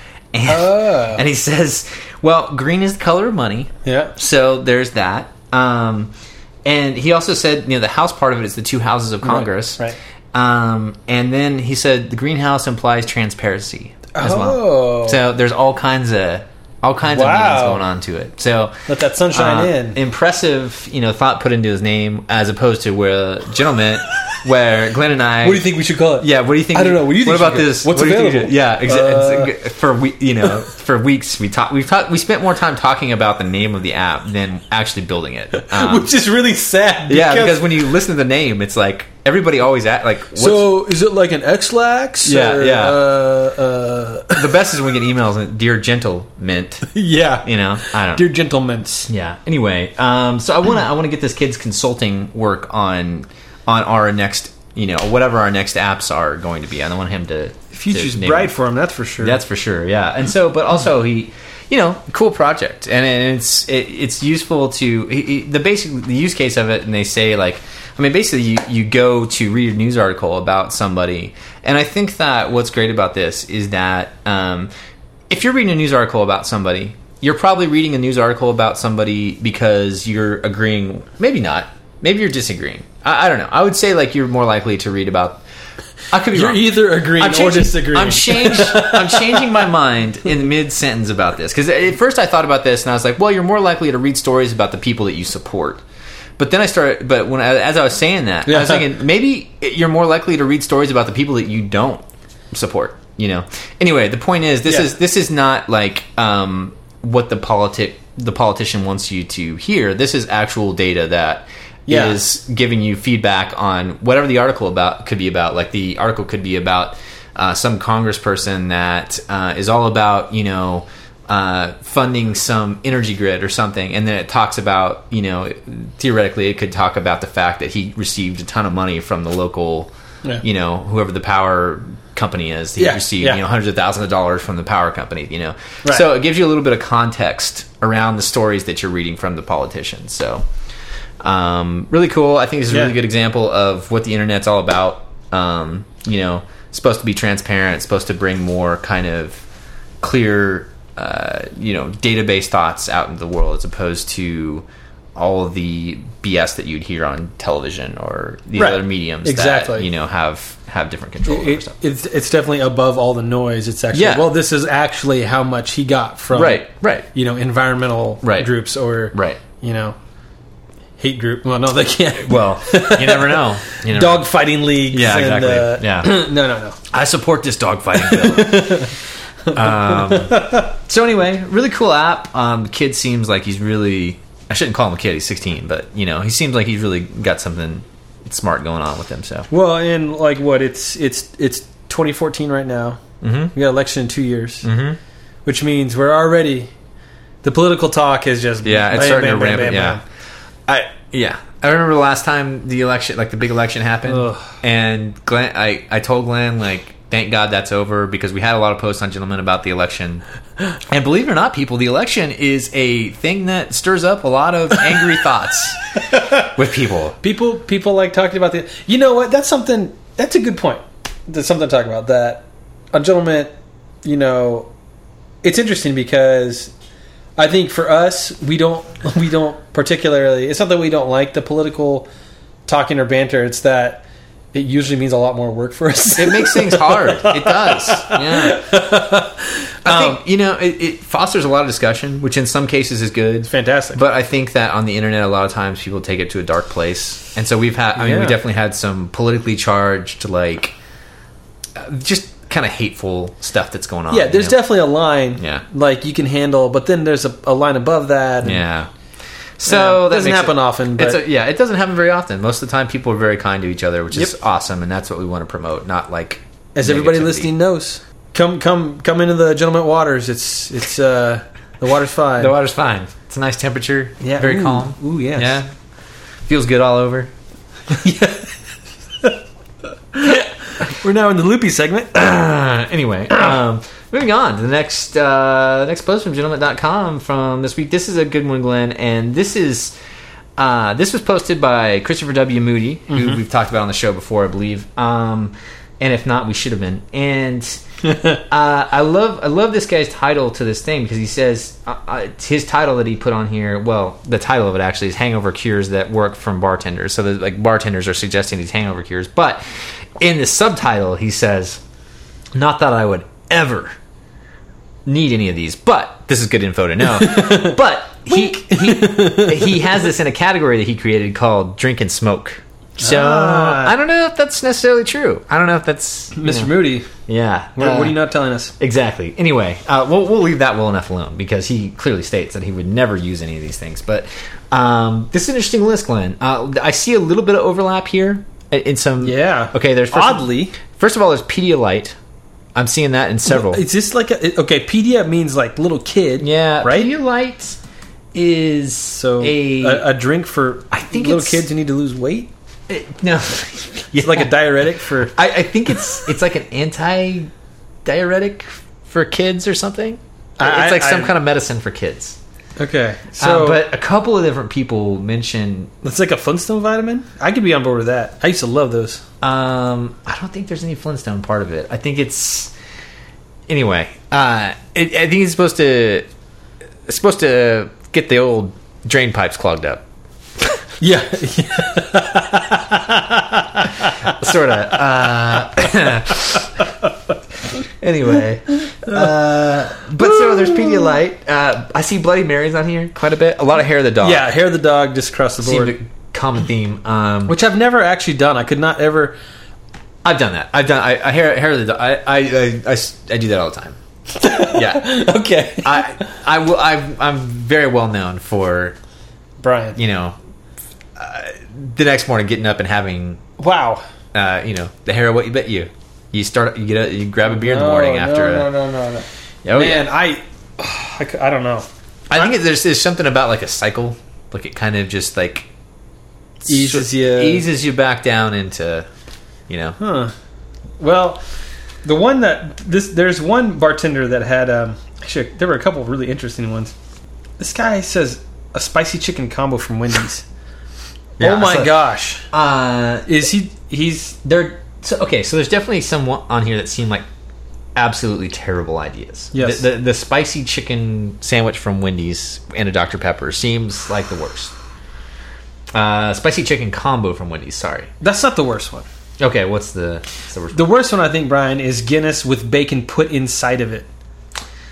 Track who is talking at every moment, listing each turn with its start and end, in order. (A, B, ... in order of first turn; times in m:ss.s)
0:00.3-0:06.1 A
0:00.4-0:01.2 B
0:03.8-0:04.1 B
0:06.6-0:18.8 A
0:09.2-0:10.0 B
0:14.1-0:15.2 B
0:17.1-0:17.8 B
0:18.9-0:20.0 B
0:19.3-0:36.1 A
0:25.4-0:29.5 B
0:35.6-0:37.8 B
0:37.1-0:40.7 A
0:40.3-0:44.6 B
0:42.2-0:43.0 A
0:44.3-0:46.9 A
0:46.9-0:49.1 B
0:47.4-0:48.3 A
0:49.1-0:58.5 A
0:57.7-0:59.4 B
0:59.2-1:14.7 A
1:15.3-1:25.4 A
1:26.1-1:35.8 A
1:26.3-1:29.5 B
1:36.4-2:09.9 A
1:38.5-1:38.9 B
1:51.9-1:52.2 B
2:10.4-2:20.4 A
2:12.8-2:13.4 B
2:21.2-2:29.4 A
2:22.7-2:22.9 B
2:30.0-2:41.7 A
2:38.6-2:39.9 B
2:41.2-2:50.0 B
2:43.9-2:44.3 A
2:46.3-2:47.1 A
2:48.2-2:48.5 A
2:49.1-2:49.4 A
2:51.0-2:56.8 B
2:52.2-2:54.3 A
2:54.9-2:56.2 A
2:56.9-2:58.9 A
2:57.9-2:58.9 B
2:59.5-3:00.6 B
2:59.5-3:09.5 A
3:09.5-3:13.0 B
3:13.2-3:13.5 A
3:13.5-3:14.7 B
3:14.6-3:15.0 A
3:15.4-3:16.7 B
3:17.4-3:20.0 B
3:18.6-3:20.0 A
3:20.7-3:30.2 A
3:24.1-3:24.4 B
3:30.9-3:37.2 A
3:36.1-3:36.4 B
3:37.2-3:43.5 B
3:44.0-3:44.7 B
3:45.4-3:46.7 B
3:47.4-3:52.1 B
3:52.7-4:00.2 B
3:56.2-3:58.6 A
3:59.8-4:10.7 A
4:03.5-4:04.0 B
4:08.0-4:08.4 B
4:11.8-4:14.7 A
4:14.1-4:18.6 B
4:15.4-4:15.6 A
4:18.4-4:18.9 A
4:19.6-4:27.5 A
4:19.6-4:21.2 B
4:26.7-4:32.5 B
4:32.4-4:35.7 A
4:34.2-4:35.6 B
4:36.4-4:37.3 A
4:37.9-4:38.5 B
4:40.1-4:42.2 B
4:42.1-4:49.9 A
4:50.6-4:57.8 A
4:53.1-4:53.4 B
4:58.1-4:58.4 B
4:58.3-5:09.6 A
5:10.2-5:11.8 A
5:12.5-5:13.9 A
5:15.0-5:28.2 A
5:17.2-5:19.9 B
5:23.0-5:23.9 B
5:26.3-5:27.1 B
5:27.8-5:28.7 B
5:28.8-5:42.2 A
5:39.2-5:40.7 B
5:42.7-5:43.8 A
5:43.5-5:47.1 B
5:46.4-5:47.8 A
5:48.3-5:50.0 A
5:49.1-5:52.5 B
5:50.9-5:51.6 A
5:52.9-5:54.6 A
5:54.2-5:55.3 B
5:55.3-5:57.5 A
5:58.0-6:02.4 A
6:00.6-6:01.3 B
6:02.8-6:03.8 B
6:03.4-6:05.9 A
6:06.0-6:09.2 B
6:09.4-6:12.7 A
6:13.7-6:16.3 A
6:17.1-6:20.0 A
6:21.0-6:24.3 B
6:24.2-6:26.7 A
6:28.0-6:34.5 A
6:34.2-6:36.0 B
6:35.6-6:37.6 A
6:37.5-6:39.4 B
6:40.2-6:44.0 A
6:44.4-6:46.3 B
6:44.6-6:45.2 A
6:45.8-6:49.0 A
6:49.6-6:50.0 B
6:50.0-6:50.4 A
6:51.2-6:53.4 A
6:53.6-6:54.0 B
6:54.3-6:58.7 A
6:57.5-7:02.5 B
6:59.6-7:00.1 A
7:02.3-7:05.7 A
7:06.6-7:09.1 A
7:06.6-7:07.6 B
7:09.7-7:10.0 A
7:10.0-7:10.3 B
7:11.0-7:11.4 B
7:12.0-7:16.9 B
7:17.6-7:20.4 B
7:21.4-7:22.0 A
7:21.4-7:22.5 B
7:22.5-7:23.3 A
7:23.3-7:24.4 B
7:24.4-7:27.2 A
7:27.9-7:34.7 A
7:29.5-7:29.8 B
7:35.9-7:38.1 A
7:38.2-7:39.0 B
7:39.4-7:40.8 A
7:40.7-7:44.1 B